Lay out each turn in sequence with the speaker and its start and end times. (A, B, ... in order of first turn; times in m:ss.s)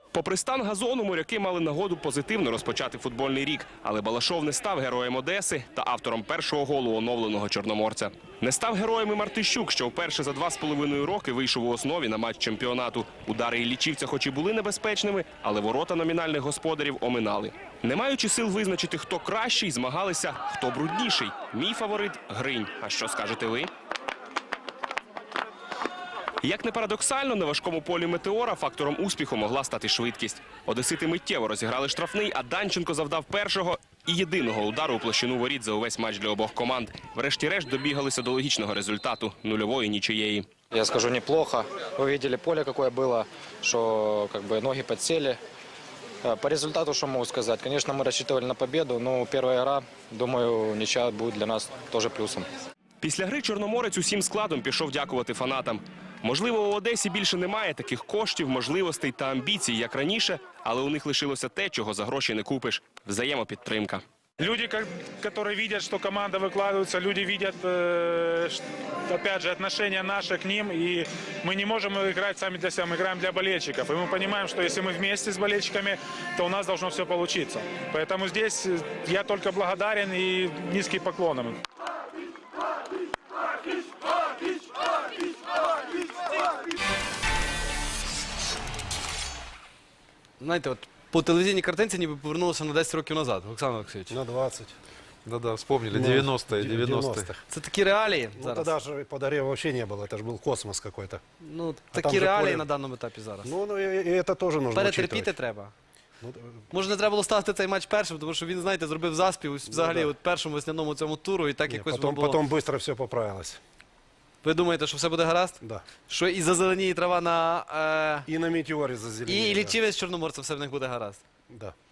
0:00.1-0:23.7 A
0:26.4-0:40.5 A
0:40.7-0:45.4 B
0:46.2-0:52.5 B
0:53.0-1:04.0 A
1:04.4-1:21.6 C
1:30.4-1:34.2 D
1:34.1-1:34.8 E
1:35.2-1:37.3 F
1:35.9-1:37.4 E
1:37.5-1:38.7 D
1:38.4-1:41.2 E
1:41.4-1:43.5 D
1:41.9-1:42.8 E
1:43.4-1:45.4 E
1:44.7-1:45.7 D
1:46.2-1:46.5 E
1:46.7-1:52.4 D
1:49.7-1:50.1 E
1:51.7-1:53.6 E
1:54.4-1:58.3 D
1:58.2-1:59.8 E
1:59.2-2:01.2 D
2:01.5-2:01.7 E